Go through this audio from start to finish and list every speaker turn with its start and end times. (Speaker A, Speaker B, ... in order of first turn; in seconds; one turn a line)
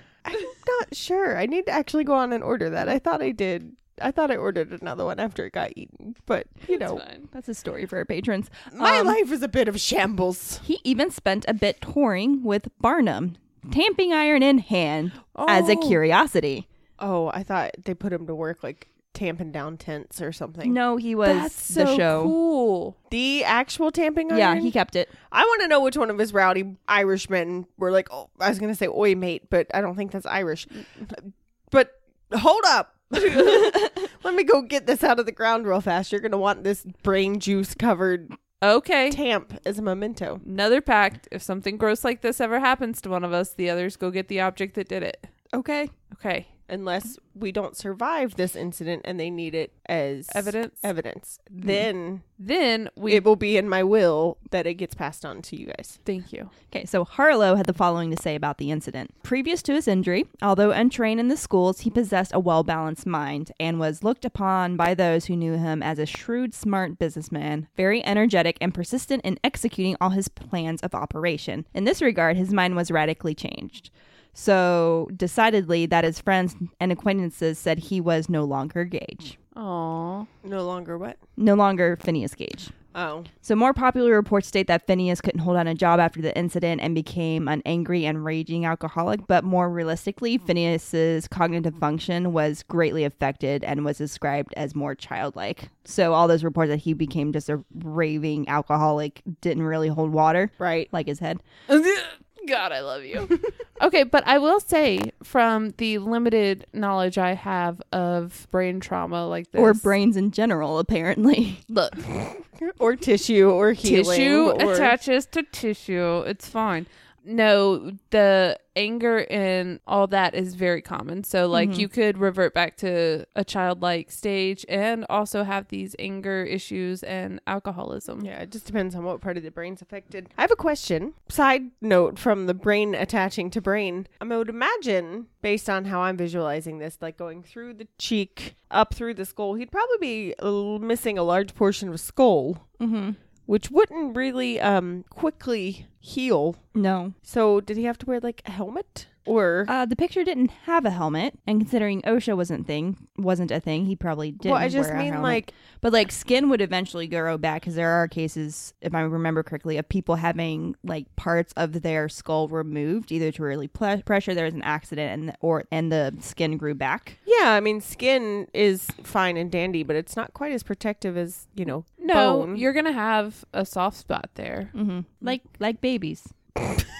Speaker A: 0.2-7.0
Speaker B: 6.7-7.3
Speaker C: 7.3-9.2
Speaker A: 8.7-10.6
Speaker C: 10.6-16.7
Speaker B: 15.3-16.0
Speaker A: 17.0-20.8
Speaker C: 20.6-22.4
Speaker B: 21.2-22.9
Speaker A: 23.1-24.7
Speaker C: 24.3-25.1
Speaker A: 25.3-38.4
Speaker B: 38.6-39.2
Speaker A: 39.1-40.4
Speaker B: 40.4-45.3
Speaker C: 45.5-45.9
Speaker B: 46.1-46.5
Speaker A: 46.7-52.2
Speaker B: 50.3-50.9
Speaker B: 52.4-53.2
Speaker A: 53.1-56.0
Speaker B: 56.0-56.5
Speaker C: 56.7-79.3
Speaker B: 79.5-80.3
Speaker A: 80.4-81.2
Speaker C: 81.4-82.7
Speaker A: 82.9-83.3
Speaker C: 83.4-101.4
Speaker A: 100.6-100.9
Speaker B: 101.7-109.9
Speaker C: 109.5-111.8
Speaker A: 112.0-115.0
Speaker B: 113.8-128.3
Speaker C: 121.5-121.9
Speaker A: 128.2-142.7
Speaker C: 142.8-143.2
Speaker A: 143.5-146.6
Speaker C: 146.8-147.2
Speaker A: 147.3-149.7
Speaker C: 149.7-167.2
Speaker A: 154.4-155.5
Speaker A: 167.3-172.7
Speaker B: 172.0-174.7
Speaker C: 174.7-176.3